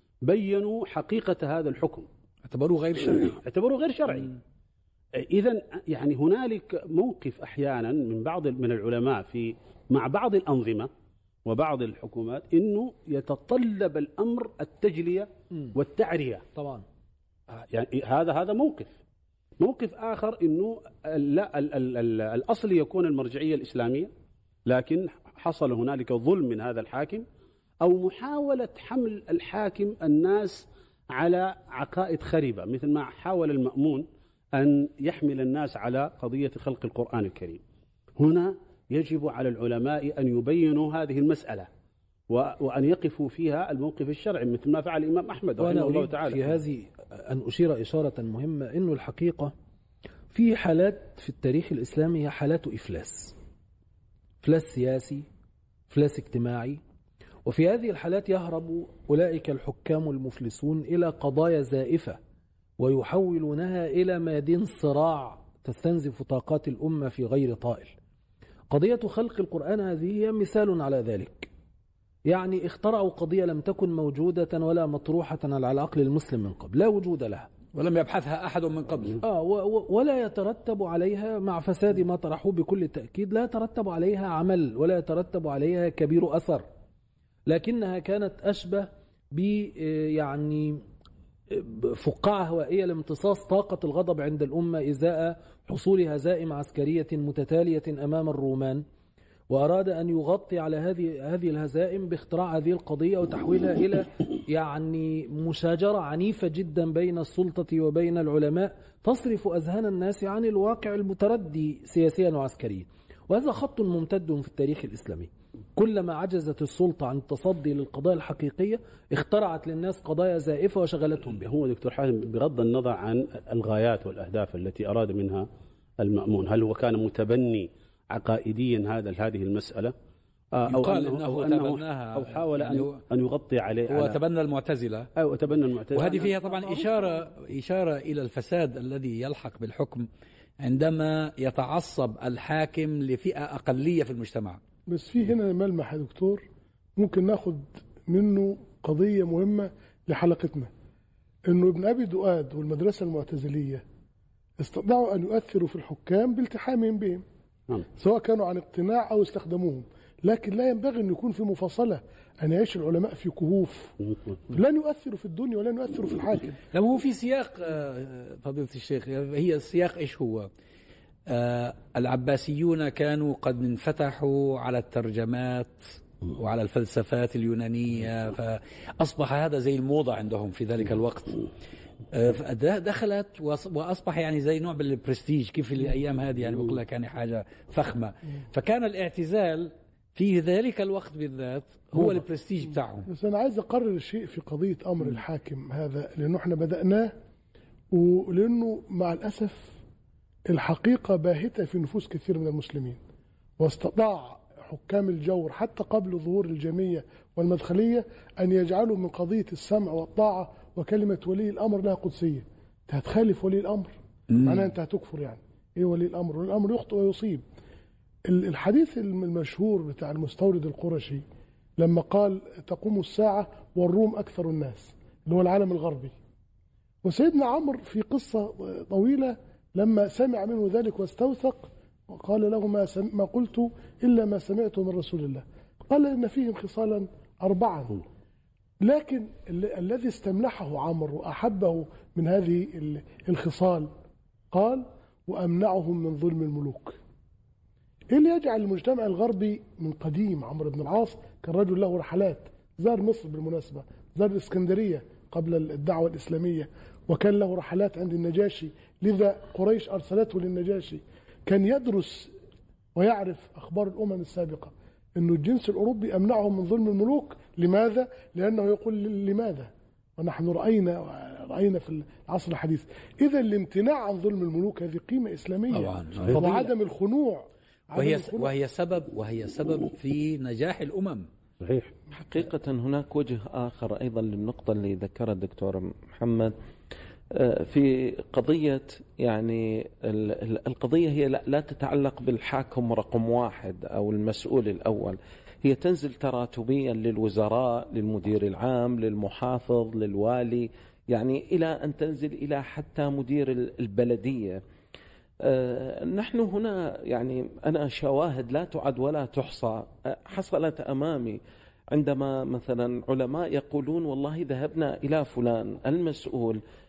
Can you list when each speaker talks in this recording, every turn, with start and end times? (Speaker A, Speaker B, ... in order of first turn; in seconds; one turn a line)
Speaker A: 0.2-2.1
Speaker B: 2.5-3.4
Speaker A: 3.4-4.4
Speaker A: 5.2-10.9
Speaker A: 11.5-16.4
Speaker C: 16.6-16.9
Speaker A: 17.5-19.0
Speaker A: 19.6-24.1
Speaker A: 24.7-27.3
Speaker A: 27.8-37.6
Speaker A: 38.2-41.7
Speaker A: 42.3-46.5
Speaker C: 45.6-49.5
Speaker C: 50.3-53.4
Speaker C: 54.4-55.2
Speaker C: 55.9-56.8
Speaker C: 57.5-62.2
Speaker C: 62.8-67.9
Speaker C: 68.7-71.5
Speaker C: 72.3-77.5
Speaker B: 77.7-79.2
Speaker C: 79.2-86.7
Speaker C: 87.5-90.8
Speaker C: 91.5-98.8
Speaker C: 99.5-121.5
Speaker A: 121.5-125.5
Speaker A: 126.0-129.9
Speaker A: 130.5-134.2
Speaker B: 130.7-133.0
Speaker B: 133.9-135.1
Speaker A: 135.2-136.9
Speaker B: 135.9-140.1
Speaker B: 140.6-144.6
Speaker D: 144.9-146.4
Speaker D: 147.0-150.7
Speaker D: 151.5-153.8
Speaker D: 154.6-157.2
Speaker D: 158.0-163.9
Speaker D: 164.5-166.6
Speaker B: 166.7-170.5
Speaker B: 171.3-181.4
Speaker B: 182.1-193.1
Speaker D: 193.1-197.1
Speaker D: 197.9-199.8
Speaker D: 200.5-203.0
Speaker D: 203.6-217.4
Speaker B: 214.3-214.6
Speaker D: 218.3-221.2
Speaker D: 221.8-226.1
Speaker D: 227.0-238.0
Speaker D: 238.8-243.9
Speaker D: 244.5-247.0
Speaker D: 248.1-262.3
Speaker D: 262.9-278.5
Speaker B: 275.7-276.5
Speaker B: 278.0-281.3
Speaker A: 281.6-281.9
Speaker E: 282.1-286.6
Speaker E: 287.3-304.6
Speaker E: 305.4-311.4
Speaker E: 311.9-316.6